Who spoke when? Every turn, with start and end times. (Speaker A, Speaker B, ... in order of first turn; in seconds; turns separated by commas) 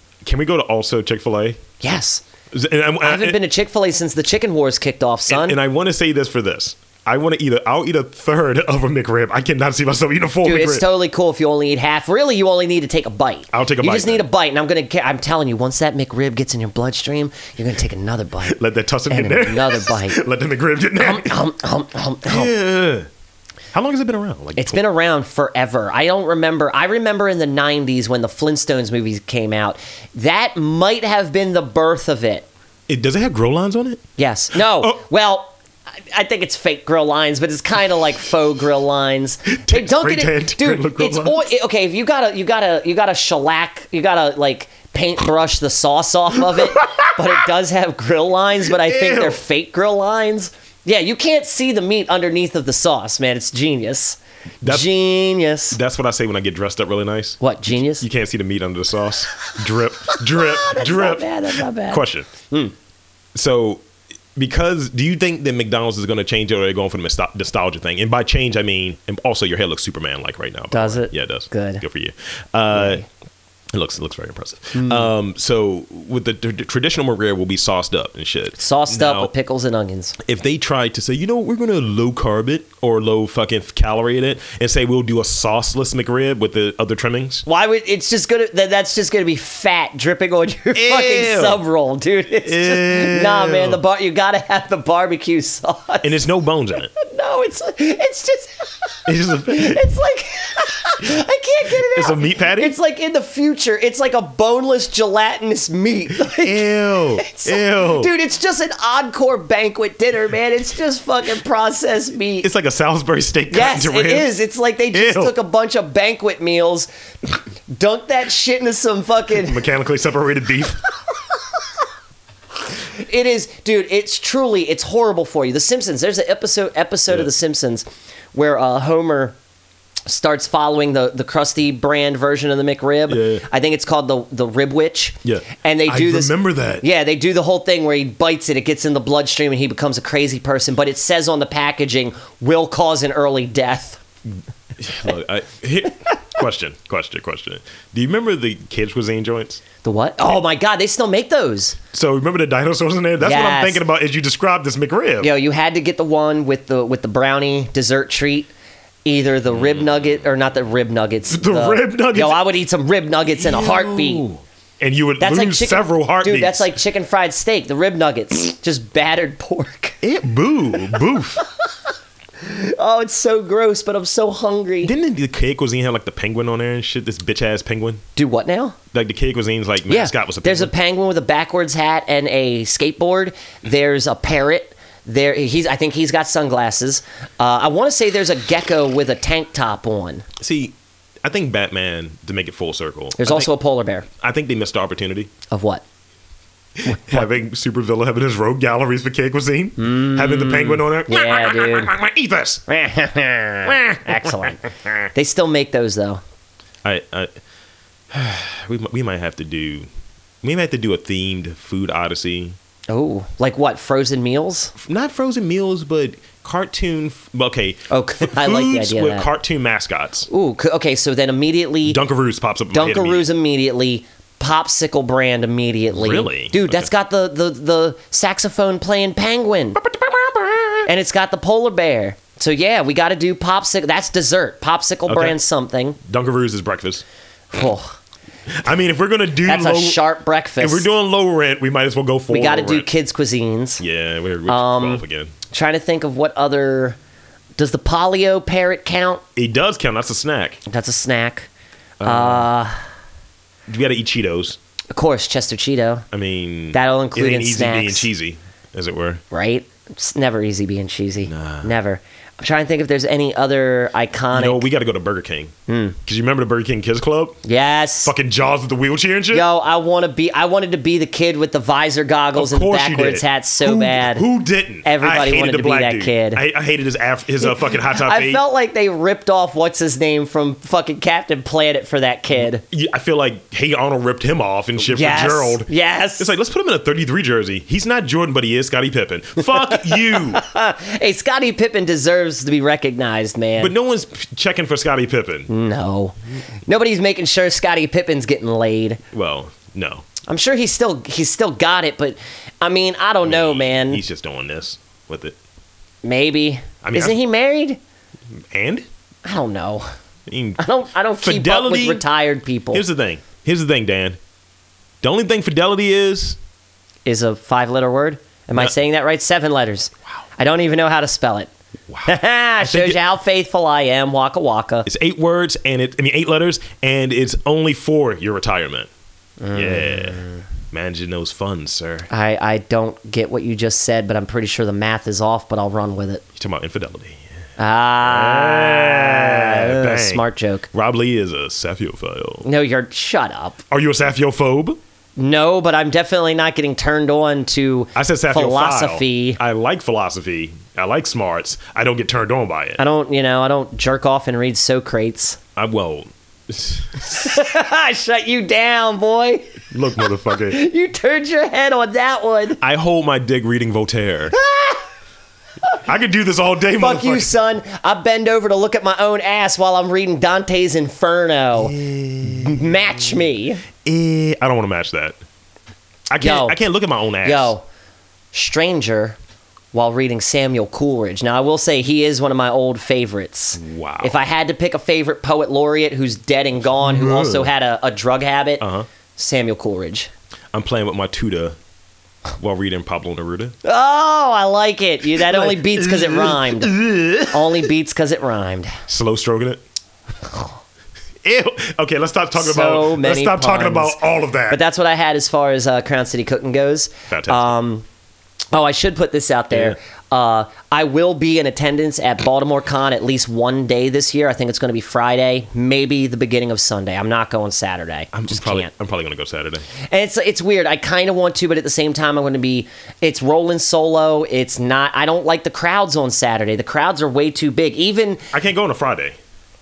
Speaker A: 0.2-1.6, Speaker B: 1.8-2.2, Speaker A: 2.5-3.4, Speaker B: 3.0-5.6, Speaker A: 5.3-10.8, Speaker B: 10.4-20.2, Speaker A: 13.5-14.3, Speaker A: 18.4-21.4, Speaker B: 21.0-22.5, Speaker A: 22.3-23.1, Speaker A: 23.7-24.8, Speaker B: 24.6-32.5, Speaker A: 32.9-34.0, Speaker B: 34.2-35.5, Speaker A: 34.5-35.0, Speaker B: 36.1-55.8, Speaker A: 39.5-41.4, Speaker A: 46.5-47.4, Speaker A: 48.6-49.4, Speaker A: 54.6-54.9, Speaker A: 55.7-62.3, Speaker B: 57.4-58.0, Speaker B: 60.1-62.7, Speaker A: 63.3-63.8, Speaker A: 64.3-73.0, Speaker B: 70.7-71.8, Speaker B: 72.7-73.0, Speaker A: 73.7-79.3, Speaker B: 74.7-75.1, Speaker B: 78.6-80.2, Speaker A: 80.2-87.4, Speaker B: 87.5-96.2, Speaker A: 90.7-91.6, Speaker A: 92.4-93.8, Speaker A: 96.0-96.9, Speaker B: 96.9-112.5, Speaker A: 99.1-99.8, Speaker A: 101.8-102.7, Speaker A: 106.2-108.1, Speaker A: 112.4-114.3, Speaker B: 113.5-116.9, Speaker A: 114.9-115.3, Speaker B: 117.7-119.6, Speaker A: 119.4-120.8, Speaker B: 122.7-129.4, Speaker B: 130.1-144.0, Speaker A: 133.1-133.4, Speaker A: 135.2-136.8, Speaker A: 144.8-149.6, Speaker B: 149.8-151.8, Speaker A: 151.9-155.3, Speaker B: 153.2-153.8, Speaker B: 155.2-158.5, Speaker B: 159.0-164.2, Speaker A: 161.3-162.4, Speaker A: 163.3-166.7, Speaker B: 165.2-170.0, Speaker A: 170.0-171.4, Speaker B: 172.4-174.9, Speaker A: 174.8-178.0, Speaker B: 178.2-178.8, Speaker A: 178.9-180.7, Speaker B: 179.9-190.2, Speaker A: 190.4-193.5, Speaker B: 193.2-194.1, Speaker A: 194.2-195.3, Speaker B: 195.5-195.8, Speaker A: 196.8-202.6, Speaker B: 196.8-197.3, Speaker B: 199.8-201.9, Speaker B: 202.7-206.2, Speaker A: 203.6-204.5, Speaker A: 206.8-207.3, Speaker A: 208.1-209.9, Speaker A: 210.4-212.6, Speaker B: 212.9-214.7, Speaker A: 214.8-220.3, Speaker B: 217.9-219.3, Speaker B: 220.3-222.0, Speaker A: 221.8-223.3, Speaker B: 222.7-229.8, Speaker A: 225.9-226.9, Speaker A: 229.8-230.9, Speaker B: 230.8-236.0, Speaker A: 235.1-235.3, Speaker A: 236.0-237.0, Speaker B: 237.5-237.9, Speaker A: 238.5-240.0, Speaker B: 239.4-240.9, Speaker A: 240.6-242.9, Speaker B: 242.3-243.8, Speaker A: 243.8-245.3, Speaker B: 244.5-247.0, Speaker B: 247.6-249.2, Speaker A: 249.3-250.6, Speaker B: 250.7-251.5, Speaker A: 252.0-252.5, Speaker B: 252.0-252.8, Speaker A: 253.7-254.6, Speaker B: 254.9-256.0, Speaker A: 256.1-259.2, Speaker B: 256.7-258.1, Speaker B: 259.3-264.6, Speaker A: 261.3-261.7, Speaker A: 264.3-265.5, Speaker B: 265.7-266.0, Speaker A: 266.1-267.4, Speaker B: 267.4-268.1, Speaker A: 268.0-269.4, Speaker B: 269.3-274.2, Speaker A: 272.3-278.4, Speaker B: 274.8-276.4, Speaker B: 277.4-282.6, Speaker A: 282.7-290.4, Speaker B: 284.8-286.3, Speaker B: 289.5-293.7, Speaker A: 293.6-295.5, Speaker B: 295.5-299.0, Speaker A: 299.1-300.1, Speaker B: 300.3-304.0, Speaker A: 303.2-305.4, Speaker B: 306.0-307.8, Speaker A: 306.8-307.2, Speaker A: 308.5-308.9, Speaker B: 309.2-309.9, Speaker A: 310.3-312.0, Speaker B: 310.6-312.8, Speaker A: 312.7-314.2, Speaker A: 315.0-316.4, Speaker B: 317.1-321.5, Speaker A: 321.9-323.0, Speaker B: 322.0-324.9, Speaker A: 324.9-328.9, Speaker B: 329.4-330.4, Speaker A: 329.5-330.2, Speaker A: 330.7-332.1, Speaker B: 332.1-336.2, Speaker A: 336.4-337.2, Speaker B: 337.6-340.7, Speaker A: 338.0-342.4, Speaker B: 342.4-343.6, Speaker A: 343.7-344.8, Speaker B: 345.2-349.4, Speaker A: 347.9-352.8, Speaker B: 352.8-355.4, Speaker A: 355.6-357.3, Speaker B: 357.0-362.6, Speaker A: 359.7-360.6, Speaker A: 362.6-364.4, Speaker B: 364.3-364.8, Speaker A: 365.8-367.3, Speaker B: 366.8-373.6, Speaker A: 371.6-373.1, Speaker A: 373.8-375.2, Speaker A: 376.1-377.5, Speaker B: 376.2-376.6, Speaker B: 377.2-377.6, Speaker B: 378.3-379.2, Speaker B: 379.7-388.6, Speaker A: 383.6-384.2, Speaker A: 386.8-387.5, Speaker A: 388.6-388.9, Speaker B: 389.1-390.1, Speaker A: 390.5-391.6, Speaker A: 392.4-393.6, Speaker B: 393.6-396.7, Speaker A: 395.1-397.7, Speaker B: 397.3-398.8, Speaker A: 398.9-399.6, Speaker A: 401.2-404.6, Speaker B: 402.4-407.8, Speaker A: 407.1-407.5, Speaker B: 408.5-418.7, Speaker A: 409.5-409.8, Speaker A: 418.1-419.7, Speaker B: 419.8-428.3, Speaker A: 428.3-429.2